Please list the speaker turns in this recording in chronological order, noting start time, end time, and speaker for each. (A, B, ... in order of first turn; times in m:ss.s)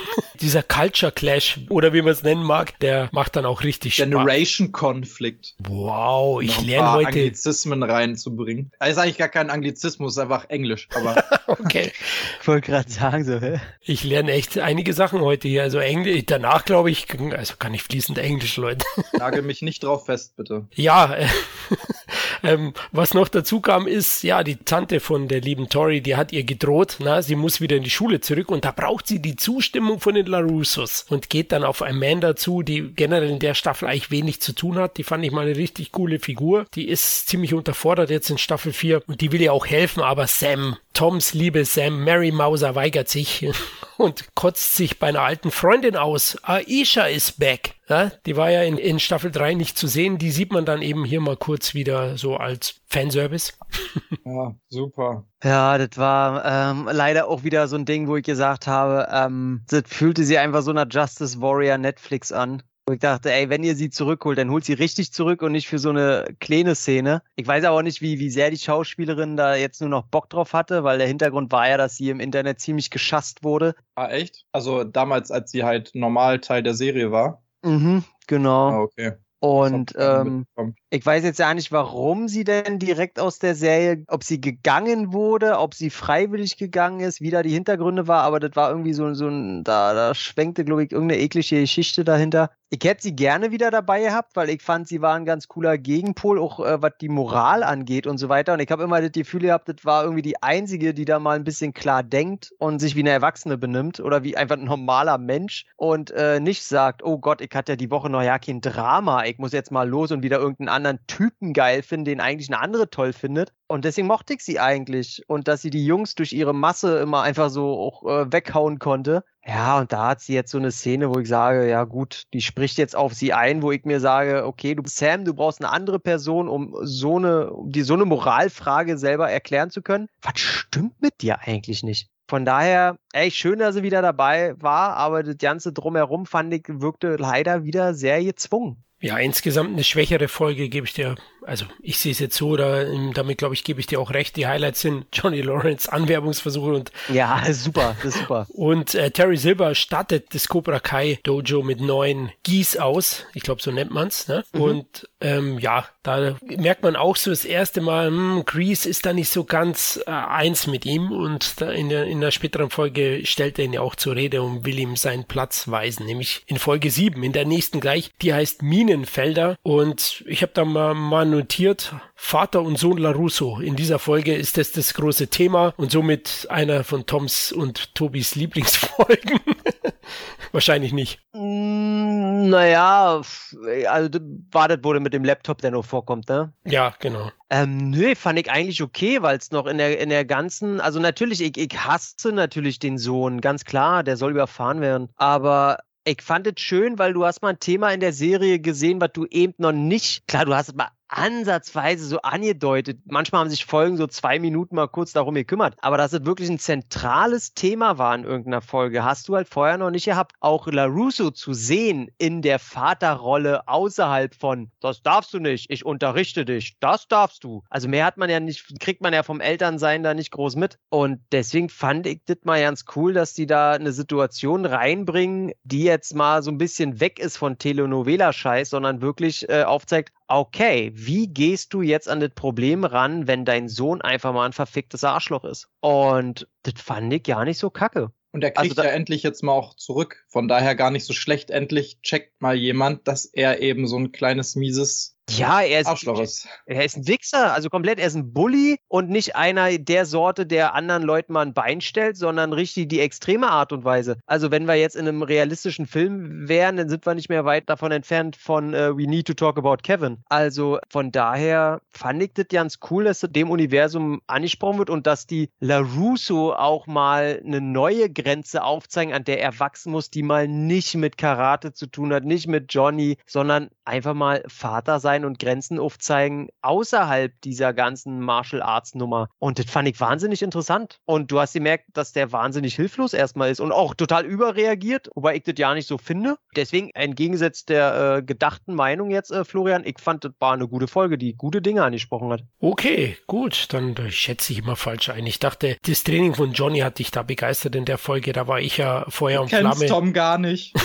0:00.4-0:04.3 A
0:04.0-0:05.6 B
0:05.6-0:07.4 A
0:06.4-0:11.8 B
0:11.0-0:12.3 A
0:12.4-0:13.7 C
0:13.9-0:18.8 A
0:19.2-0:20.7 B
0:20.8-0:54.0 A
0:54.2-0:55.2 B
0:55.4-1:13.8 C
1:14.0-1:17.4 B
1:17.6-1:18.8 C
1:18.7-1:20.8 B
1:19.4-2:18.8 C
2:19.0-2:27.1 A
2:27.1-2:28.5 C
2:27.8-3:01.2 A
2:34.5-2:34.8 C
3:01.3-3:06.5 C
3:06.7-3:07.3 A
3:07.5-3:58.9 C
3:58.3-4:05.1 B
4:05.3-4:52.5 C
4:05.8-4:06.5 B
4:52.6-5:00.0 A
4:59.3-5:00.8 B